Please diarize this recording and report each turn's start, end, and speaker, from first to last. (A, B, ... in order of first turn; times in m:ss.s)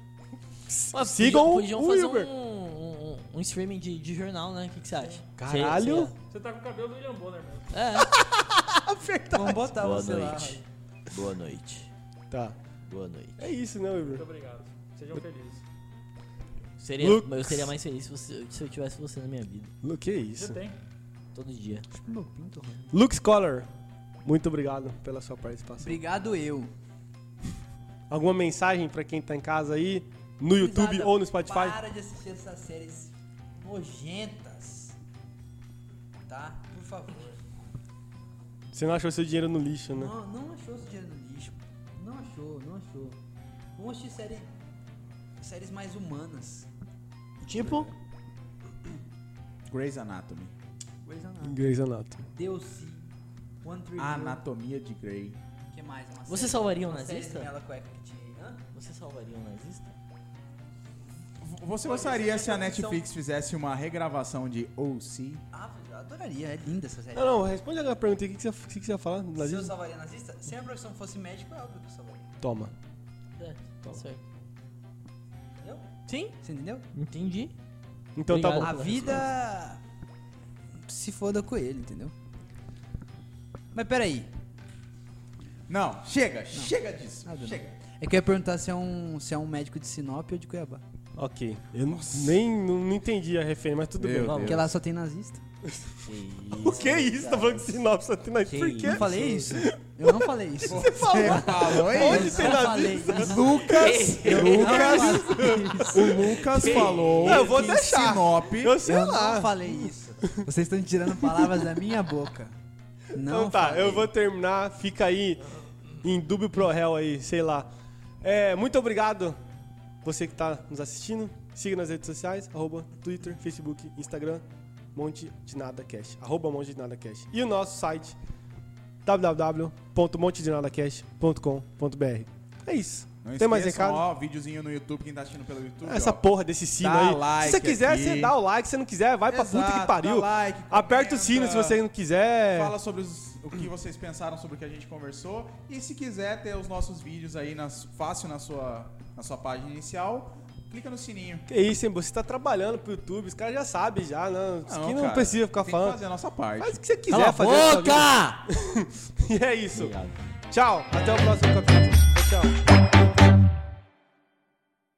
0:00.7-0:02.3 A
0:00.9-0:06.1 B
0:05.0-0:05.3 C
0:05.4-0:06.1 A
0:06.2-0:07.8 C
0:07.7-0:08.1 B
0:09.2-0:10.6 D
0:09.3-0:11.9 B
0:12.3-0:12.6 A
0:12.9-0:13.5 B
0:13.4-0:14.2 A
0:14.0-0:15.6 C
0:16.8-0:19.7 B
0:17.0-0:17.7 A
0:19.8-0:20.6 A
0:20.4-0:20.8 C
0:21.3-0:21.9 B
0:21.9-0:22.9 D
0:22.9-0:23.7 A
0:24.2-0:26.0 A
0:25.8-0:26.7 D
0:28.1-0:31.8 A
0:30.5-0:35.0 D
0:36.3-0:37.5 D
0:38.7-0:40.1 A
0:39.9-0:43.2 D
0:43.8-0:44.5 D
0:45.4-0:46.7 D
0:47.5-0:47.8 B
0:49.7-0:50.5 E
0:51.0-0:51.6 D
0:51.4-0:52.2 A
0:52.3-0:53.0 D
0:53.6-0:54.4 D
0:54.0-0:55.4 E
0:55.7-0:58.6 D
0:56.3-0:57.5 B
0:58.7-0:59.9 B
1:01.4-1:05.4 E
1:01.8-1:03.0 D
1:05.5-1:07.3 D
1:07.1-1:09.7 A
1:09.4-1:12.3 D
1:12.4-1:12.7 A
1:13.4-1:14.2 B
1:15.6-1:15.8 D
1:16.1-1:16.4 B
1:16.4-1:16.8 D
1:16.9-1:17.5 B
1:18.2-1:18.8 A
1:18.3-1:19.3 B
1:18.6-1:19.8 D
1:20.8-1:22.1 D
1:23.7-1:24.3 D
1:25.7-1:27.8 E
1:26.5-1:30.8 D
1:31.2-1:34.6 A
1:31.9-1:32.4 E
1:34.0-1:34.7 E
1:34.2-1:34.7 B
1:34.4-1:35.4 D
1:35.7-1:36.0 A
1:36.0-1:37.8 B
1:36.6-1:43.5 A
1:38.4-1:39.2 B
1:38.8-1:46.2 D
1:40.7-1:48.8 E
1:43.1-1:47.6 B
1:44.4-1:46.4 A
1:47.2-1:50.4 A
1:48.8-1:52.5 D
1:51.2-1:51.7 A
1:53.1-1:54.1 D
1:53.2-1:55.4 A
1:56.0-1:57.7 A
1:58.2-1:59.4 A
2:00.0-2:04.4 A
2:04.9-2:08.2 A
2:09.0-2:14.0 A
2:13.2-2:16.2 E
2:15.8-2:22.7 A
2:16.8-2:18.3 E
2:19.3-2:21.8 E
2:22.5-2:31.4 E
2:31.5-2:36.0 A
2:34.7-2:36.8 E
2:36.6-2:39.9 A
2:37.1-2:38.4 B
2:39.7-2:40.1 B
2:40.5-2:42.5 A